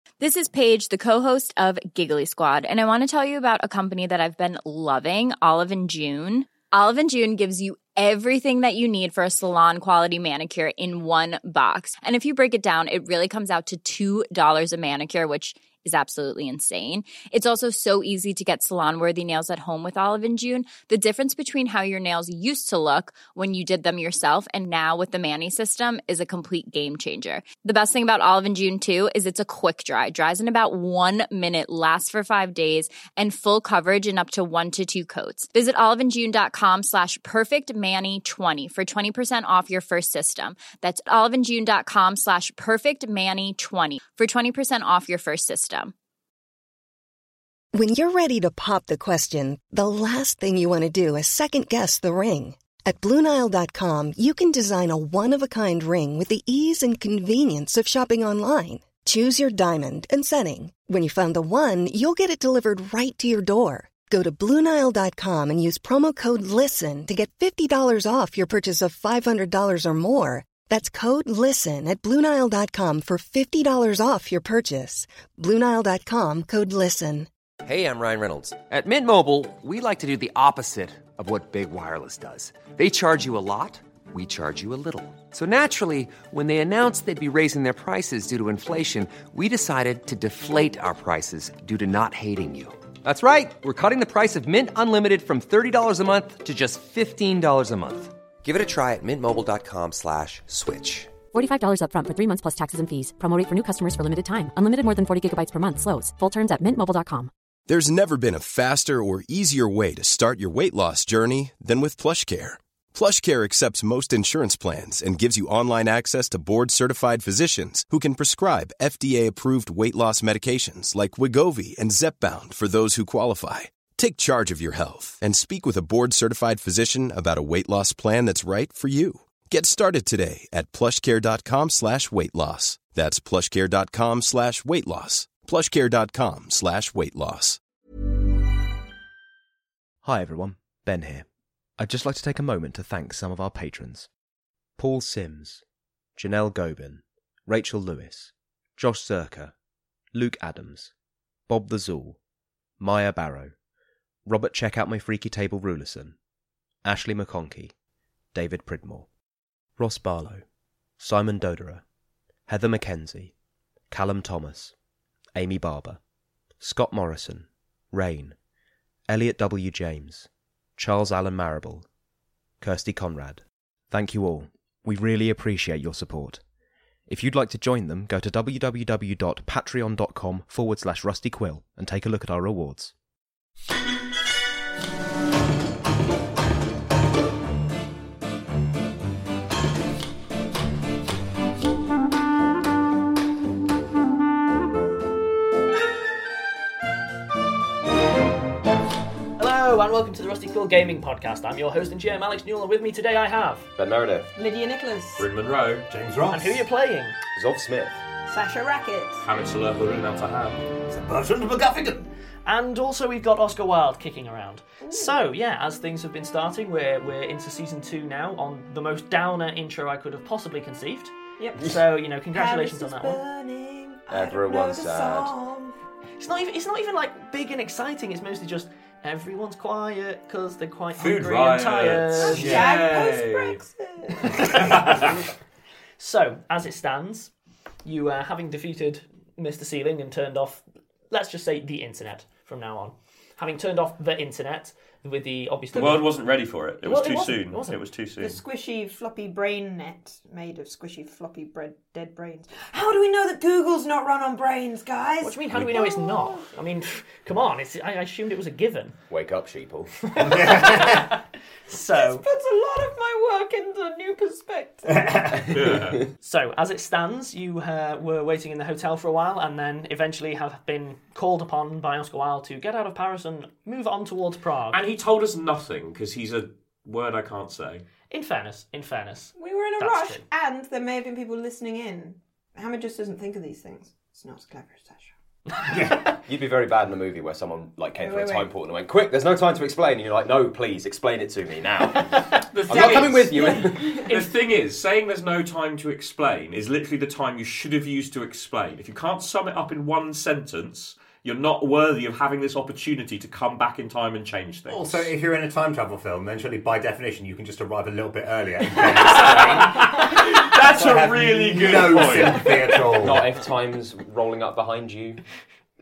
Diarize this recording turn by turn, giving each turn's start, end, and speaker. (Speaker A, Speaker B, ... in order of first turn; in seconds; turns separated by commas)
Speaker A: 0.2-45.9, Speaker B: 47.7-77.3, Speaker C: 77.6-101.1, Speaker D: 101.3-107.3, Speaker E: 107.7-137.6, Speaker F: 140.0-141.2, Speaker F: 141.8-144.1, Speaker F: 144.8-145.6, Speaker F: 146.2-149.5, Speaker F: 150.1-150.9, Speaker F: 151.5-152.2, Speaker F: 152.8-153.5, Speaker F: 154.2-156.2, Speaker F: 156.8-157.7, Speaker F: 158.3-159.1, Speaker F: 159.8-160.4, Speaker F: 161.0-161.8, Speaker F: 162.5-163.3, Speaker F: 163.9-164.7, Speaker F: 165.3-166.0, Speaker F: 166.6-168.3, Speaker F: 169.1-171.8, Speaker F: 172.6-176.4, Speaker F: 177.1-182.9, Speaker G: 199.4-203.7, Speaker H: 203.8-204.3, Speaker I: 204.3-205.2, Speaker J: 205.2-205.9, Speaker K: 205.9-206.6, Speaker G: 206.3-207.2, Speaker H: 207.3-208.0, Speaker I: 208.3-209.2, Speaker J: 209.2-210.6, Speaker K: 210.9-212.1, Speaker G: 212.4-223.2, Speaker I: 214.8-215.2, Speaker I: 221.4-221.8, Speaker I: 222.3-225.7, Speaker H: 224.1-225.3, Speaker G: 226.2-232.5, Speaker J: 231.0-233.6, Speaker I: 232.2-235.1, Speaker K: 232.4-232.7, Speaker G: 234.2-234.9, Speaker J: 234.4-235.2, Speaker G: 236.0-237.3, Speaker G: 237.8-246.1, Speaker J: 245.7-248.4, Speaker G: 246.8-247.8, Speaker I: 248.2-256.4, Speaker G: 255.2-259.0, Speaker H: 259.1-260.3, Speaker G: 260.1-261.1, Speaker K: 260.3-260.9, Speaker G: 261.7-262.2, Speaker I: 261.7-265.3, Speaker K: 264.9-265.2, Speaker J: 265.5-266.0, Speaker G: 266.2-274.8, Speaker J: 274.7-277.8, Speaker G: 278.1-280.2, Speaker I: 279.4-285.1, Speaker H: 285.7-294.1, Speaker I: 288.0-288.5, Speaker J: 292.5-293.4, Speaker I: 293.3-294.1, Speaker J: 294.0-305.1, Speaker K: 304.7-313.3, Speaker J: 308.8-312.8, Speaker H: 312.9-315.2